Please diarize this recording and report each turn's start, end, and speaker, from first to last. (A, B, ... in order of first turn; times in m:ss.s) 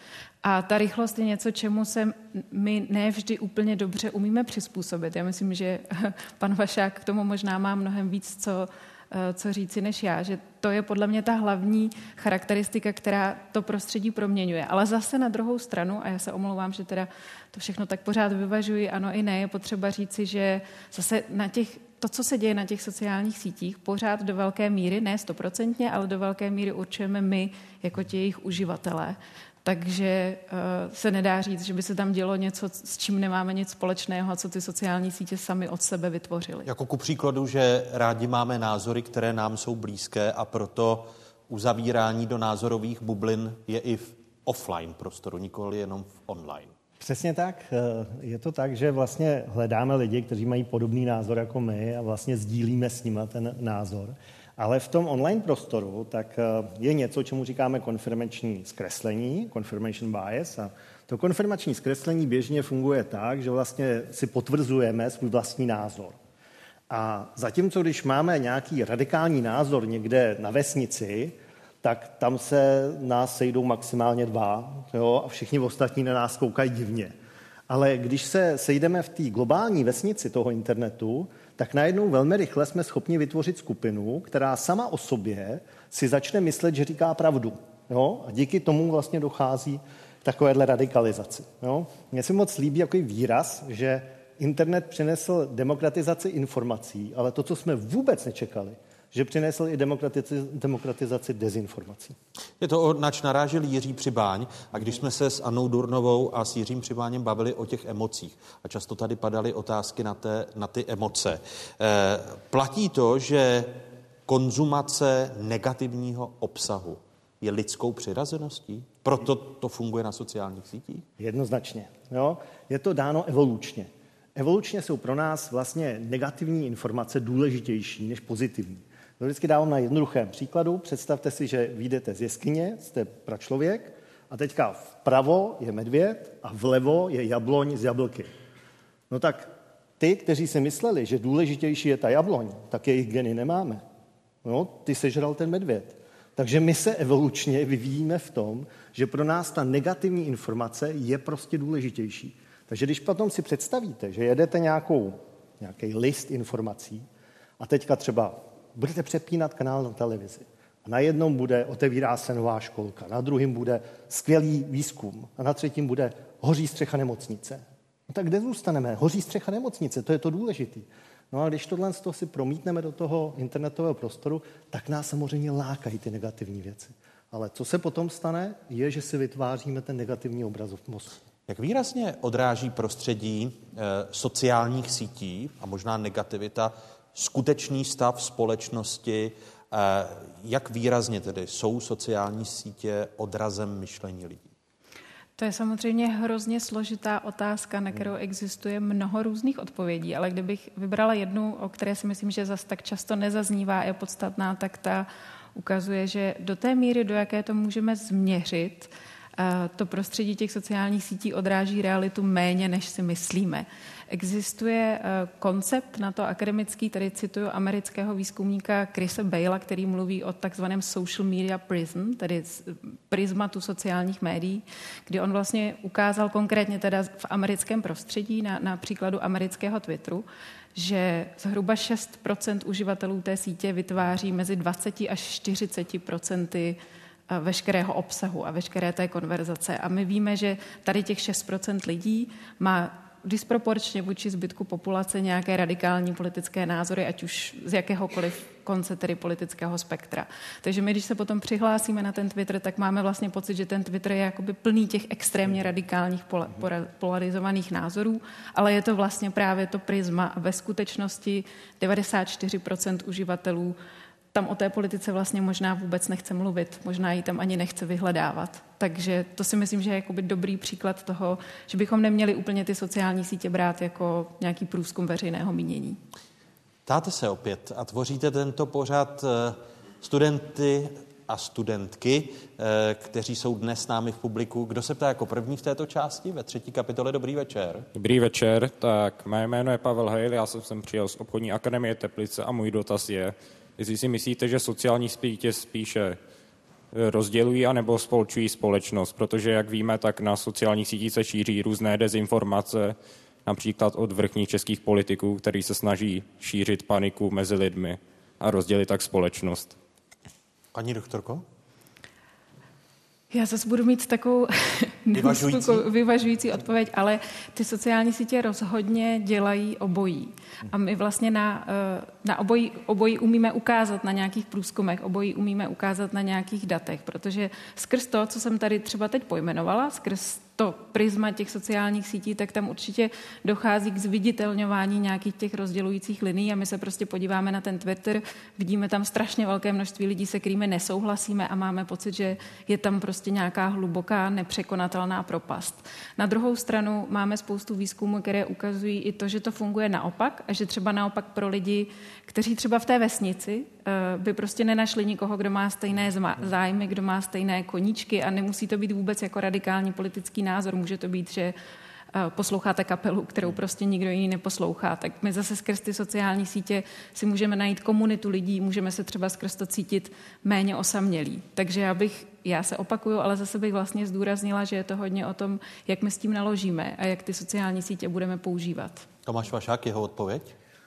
0:00.4-0:36.7 A
0:36.6-0:46.7 B
0:47.0-1:06.2 C
1:06.9-1:17.1 C
1:17.7-1:42.1 C
1:42.6-2:01.0 B
2:01.2-2:18.3 C
2:19.1-2:23.8 C
2:24.4-2:37.0 C
2:37.6-3:01.2 C
3:01.5-3:14.5 B
3:15.4-3:50.2 A
3:50.8-3:56.8 A
3:57.3-4:23.8 A
4:24.3-4:36.0 A
4:36.8-4:47.9 B
4:48.0-4:56.2 D
4:57.0-5:02.9 D
5:03.5-5:09.7 D
5:10.7-5:11.4 B
5:13.3-6:01.5 A
5:15.1-5:15.8 B
6:02.1-6:19.0 A
6:19.2-6:20.5 B